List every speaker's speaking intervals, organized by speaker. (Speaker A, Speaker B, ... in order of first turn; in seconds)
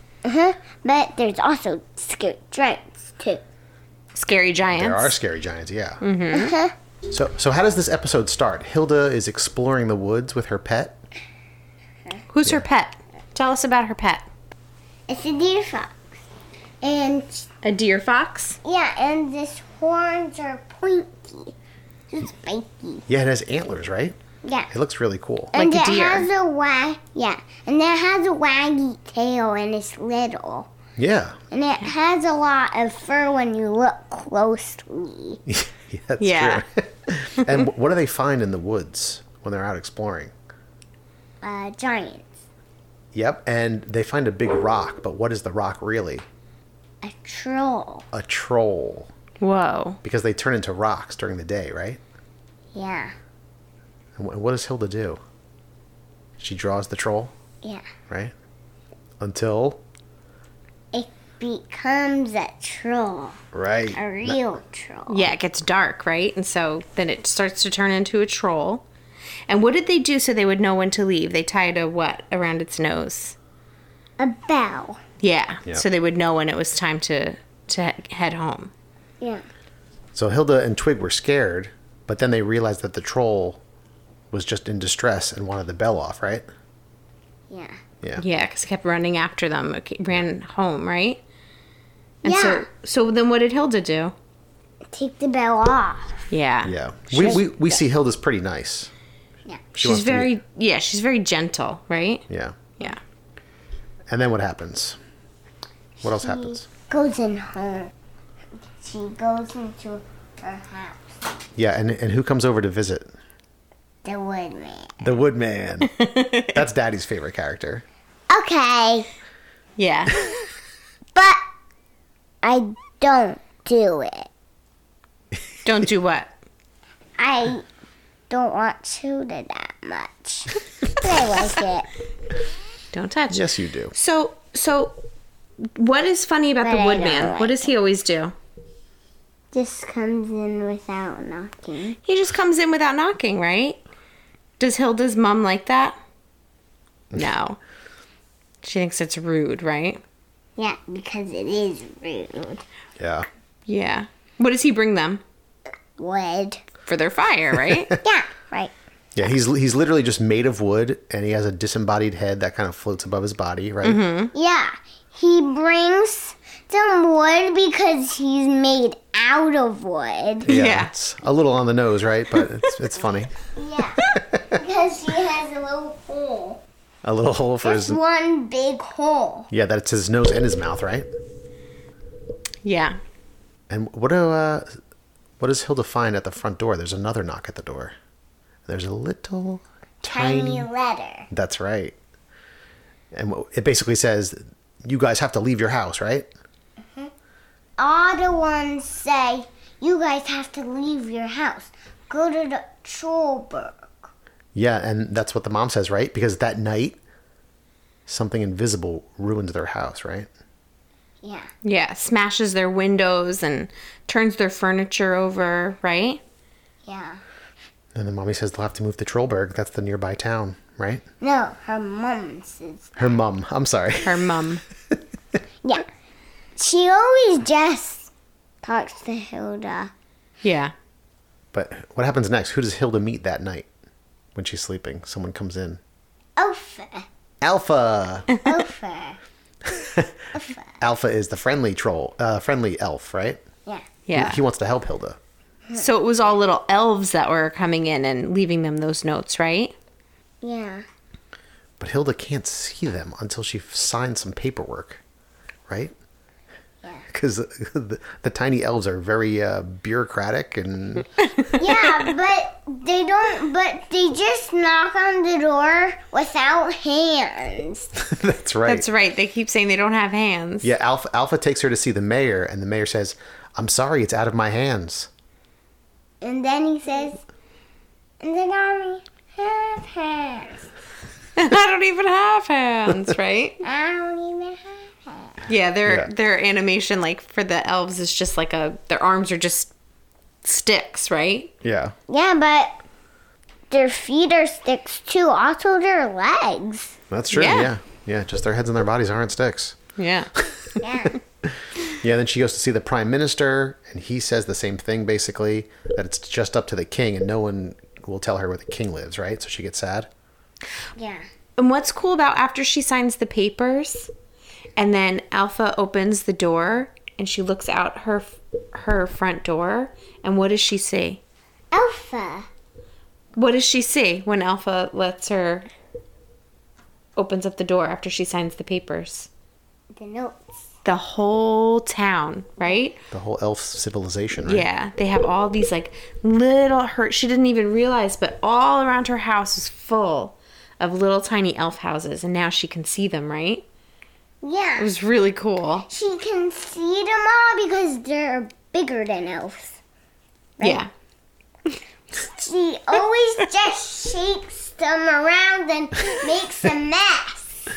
Speaker A: 0.2-3.4, 6.3-6.7, 15.1-16.1, 16.8-17.5, 18.6-21.5, 22.1-23.1, 24.4-24.7, 25.5-30.7, 31.5-35.4, 41.4-42.3, 47.0-48.0, 52.7-53.1, 60.9-63.4, 63.9-65.3, 74.2-75.0, 87.5-87.8, 92.2-92.7, 94.9-96.2, 106.0-107.9, 108.8-111.2, 114.0-115.0, 118.3-119.1, 121.1-121.4, 122.4-124.3, 127.2-127.6, 128.3-131.9, 136.6-137.7, 139.5-142.0, 150.6-152.6, 156.0-156.6, 158.0-158.7, 164.3-170.5, 173.5-176.6, 177.6-179.5, 190.0-191.3, 197.8-204.1, 211.2-211.5, 216.8-217.2, 221.2-222.9, 226.6-228.1, 228.6-229.9, 236.4-237.1, 238.4-239.2, 240.3-240.7, 250.4-250.8, 261.6-267.9, 276.2-277.2, 278.2-280.6, 283.6-285.4, 292.1-292.8, 293.7-296.9, 300.8-301.2, 310.9-311.2, 321.7-322.5, 329.9-330.5, 344.4-344.9, 345.9-349.8, 350.6-350.8, 352.1-357.7
Speaker B: 4.1-5.1, 6.0-6.5, 12.3-14.3, 17.6-18.6, 25.5-26.3, 36.2-36.6, 49.4-50.0, 65.1-68.8, 69.5-73.3, 75.2-78.7, 88.2-91.2, 92.2-94.1, 96.3-97.4, 99.8-102.2, 115.8-116.6, 119.8-120.2, 125.6-126.3, 132.9-135.0, 135.6-138.3, 142.0-143.8, 144.6-146.0, 147.1-147.6, 148.6-150.0, 153.7-155.2, 156.9-157.9, 163.8-164.3, 170.5-170.9, 182.6-183.0, 211.6-216.2, 224.0-224.6, 230.4-230.7, 244.1-244.4, 245.7-249.7, 268.7-270.7, 281.4-283.6, 285.5-289.7, 290.4-291.5, 297.3-297.7, 300.0-300.3, 311.6-314.1, 314.8-321.2, 323.4-325.7, 327.1-329.3, 330.9-333.0, 334.4-343.6, 344.8-345.9, 350.6-350.9
Speaker C: 4.7-6.0, 7.1-11.0, 23.1-24.2, 24.7-25.6, 31.0-31.4, 35.5-40.3, 43.1-46.2, 48.1-49.1, 50.0-52.0, 54.1-55.2, 56.4-57.3, 59.2-59.8, 63.5-64.4, 80.1-83.6, 84.3-86.5, 96.6-98.9, 99.7-100.3, 102.3-102.6, 104.1-105.0, 106.0-106.7, 111.5-113.1, 115.0-115.9, 116.5-117.8, 133.3-133.9, 153.0-153.3, 159.1-164.0, 170.4-173.3, 174.1-174.4, 177.0-178.0, 179.5-181.1, 183.7-184.8, 185.4-187.9, 188.7-190.7, 191.3-191.9, 193.1-196.3, 204.5-207.0, 208.1-210.3, 217.9-221.0, 223.0-224.3, 231.5-233.7, 234.3-235.8, 237.4-238.3, 239.7-240.1, 240.8-243.4, 244.1-245.2, 251.8-255.0, 255.7-255.9, 257.1-261.1, 268.0-268.9, 270.6-275.1, 291.6-291.9, 297.1-299.8, 302.0-310.1, 333.1-334.7